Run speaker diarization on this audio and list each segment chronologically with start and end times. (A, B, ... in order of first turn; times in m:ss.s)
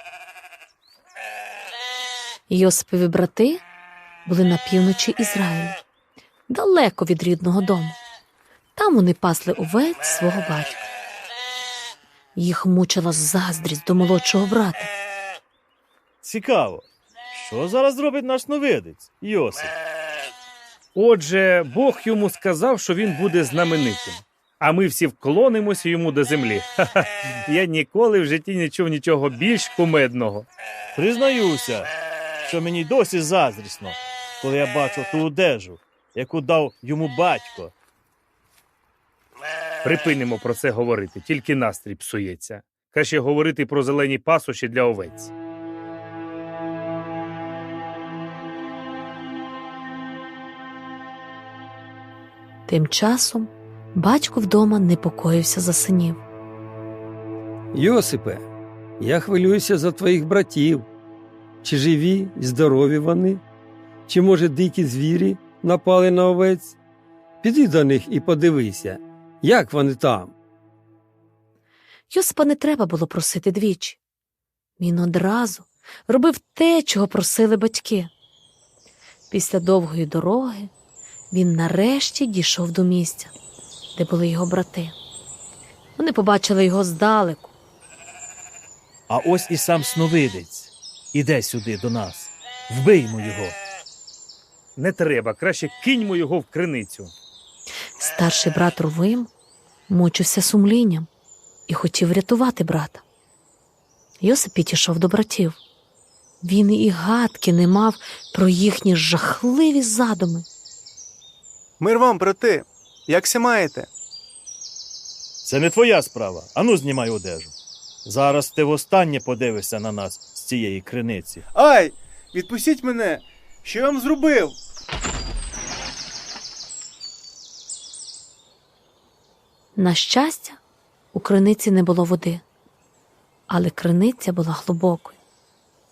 0:02.5-0:03.6 A
0:04.2-0:05.8 A
0:06.5-0:08.0 A
0:08.8-0:10.9 A
0:12.3-0:14.9 A
0:16.2-0:19.7 B
0:21.0-0:30.5 C
0:31.0-0:31.9 B
0:32.4-0:37.7 B
0:39.8-0:45.3 C
0:52.7-0:56.2 A
0:57.7-0:58.4 D
0:59.0-1:00.9 D
1:01.6-1:03.4 D
1:04.1-1:06.8 D
1:07.4-1:10.3 D
1:12.1-1:14.0 A
1:14.8-1:18.1 A
1:19.3-1:20.7 A
1:21.3-1:23.3 A
1:24.0-1:25.0 A
1:26.0-1:27.5 A
1:29.1-1:33.6 B
1:34.8-1:37.1 C
1:38.0-1:39.3 A
1:39.9-1:41.1 A
1:41.7-1:43.0 A
1:44.2-1:45.6 A
1:46.4-1:50.5 A
1:51.8-1:53.9 E
1:55.4-1:57.5 B
1:58.0-2:01.5 B
2:01.5-2:04.6 E
2:09.8-2:10.6 A
2:11.1-2:12.4 A
2:13.5-2:15.2 A